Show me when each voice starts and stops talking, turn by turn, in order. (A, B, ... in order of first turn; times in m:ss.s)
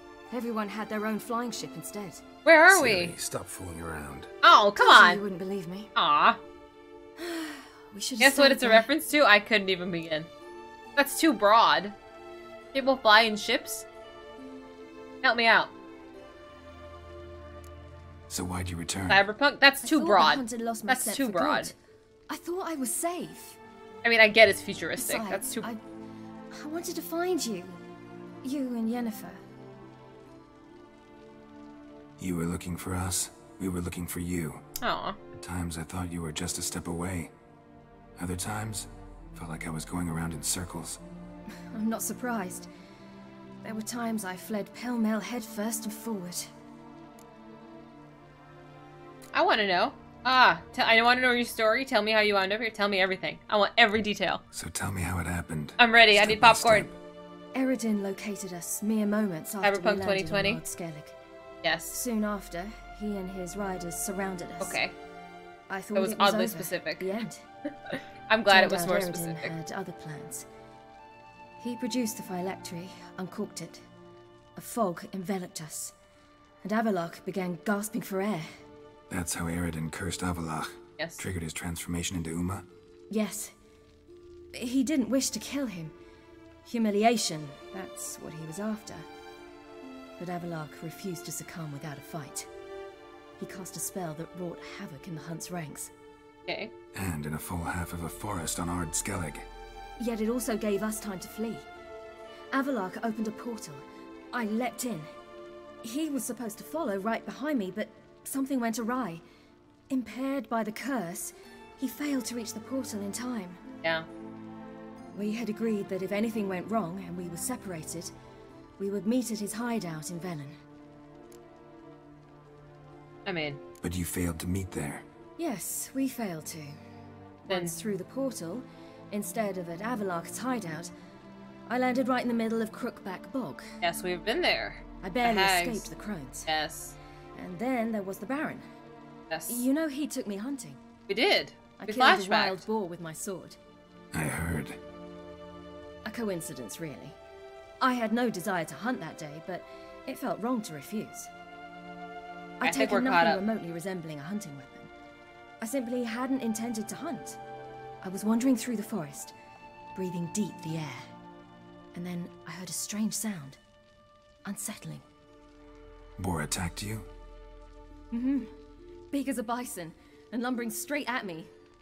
0:00.3-0:02.2 A
0:02.4-0:03.2 B
0:02.7-0:04.3 C
0:04.4-0:05.2 B
0:04.8-0:05.9 A
0:06.0-0:06.4 B
0:07.2-0:08.9 A
0:08.2-0:10.3 B
0:11.0-0:11.9 B
0:12.7-0:13.8 B
0:15.2-0:15.7 B
0:18.3-0:19.2 C
0:19.1-0:21.7 B
0:19.8-0:21.7 A
0:22.3-0:23.6 A
0:24.0-0:25.7 B
0:25.0-0:25.8 A
0:26.5-0:27.8 A
0:28.4-0:29.4 A
0:32.2-0:34.6 C
0:34.8-0:35.2 B
0:35.4-0:37.3 C
0:38.2-0:41.0 C
0:41.7-0:42.7 A
0:43.6-0:46.5 A
0:49.3-0:54.4 B
0:54.5-0:56.9 C
0:55.8-0:56.9 B
0:57.6-1:01.2 A
0:59.6-1:00.6 B
1:01.6-1:02.0 B
1:01.9-1:04.8 A
1:04.6-1:04.9 B
1:05.7-1:07.4 A
1:06.0-1:07.1 B
1:07.9-1:09.5 B
1:08.5-1:10.5 A
1:11.6-1:13.8 A
1:14.6-1:15.9 A
1:16.6-1:18.5 A
1:19.1-1:22.7 C
1:23.1-1:23.5 A
1:24.5-1:25.9 A
1:26.6-1:29.1 A
1:30.2-1:32.5 A
1:33.4-1:35.9 A
1:36.5-1:36.7 B
1:36.9-1:39.5 C
1:40.0-1:41.7 A
1:42.5-1:45.1 A
1:45.8-1:49.2 A
1:49.9-1:53.6 A
1:55.1-1:58.1 A
1:58.8-2:00.6 A
2:03.2-2:03.6 B
2:03.8-2:05.1 C
2:05.4-2:06.8 A
2:07.5-2:10.9 A
2:07.5-2:07.8 B
2:11.7-2:13.7 A
2:13.8-2:15.9 B
2:15.0-2:16.5 A
2:16.5-2:17.0 B
2:17.4-2:18.6 A
2:19.3-2:19.6 B
2:19.5-2:20.8 A
2:21.1-2:22.6 B
2:21.8-2:23.6 A
2:24.1-2:24.8 C
2:26.0-2:27.2 A
2:27.8-2:31.3 A
2:32.6-2:34.9 A
2:32.6-2:33.4 B
2:35.6-2:37.4 A
2:38.0-2:39.4 A
2:40.0-2:41.1 A
2:42.0-2:43.6 A
2:44.4-2:45.0 A
2:46.2-2:47.1 C
2:48.1-2:48.5 A
2:49.1-2:51.5 A